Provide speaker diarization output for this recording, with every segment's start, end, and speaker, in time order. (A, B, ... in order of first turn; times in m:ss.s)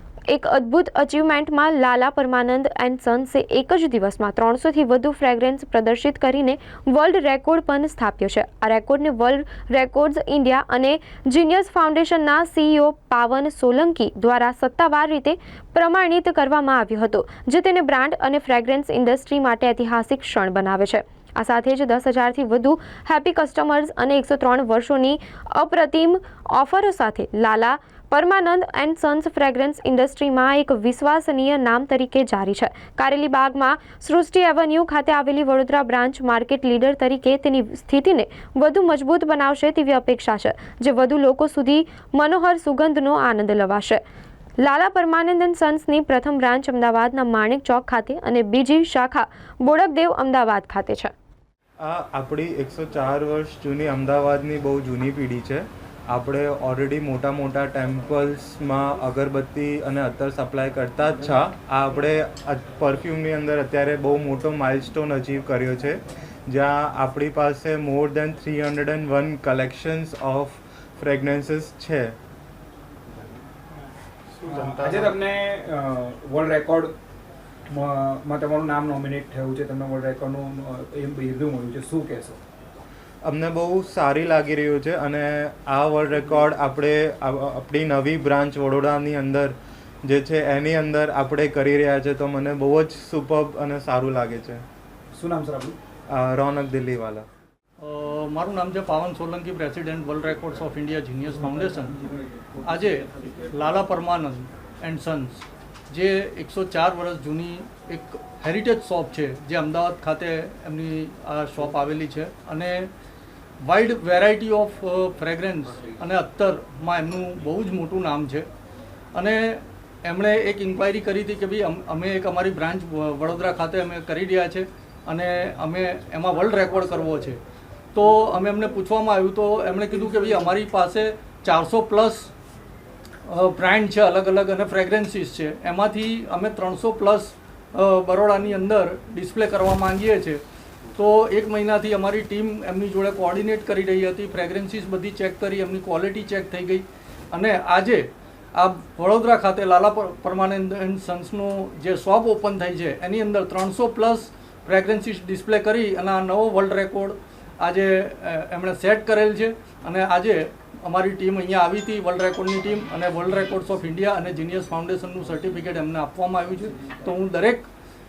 0:00.3-0:44.0 A
0:44.6-0:51.1 A
0:51.8-1:12.1 B
1:14.5-1:16.9 C
1:14.7-1:15.0 B
1:17.7-1:22.4 C
1:23.2-1:29.5 B
1:30.0-1:34.6 B
1:35.1-1:35.8 C
1:36.1-1:37.2 B
1:37.8-1:52.9 D
1:53.6-1:58.5 D
1:59.1-2:07.4 D
2:07.9-2:12.3 D
2:13.2-2:20.4 D
2:20.9-2:47.7 D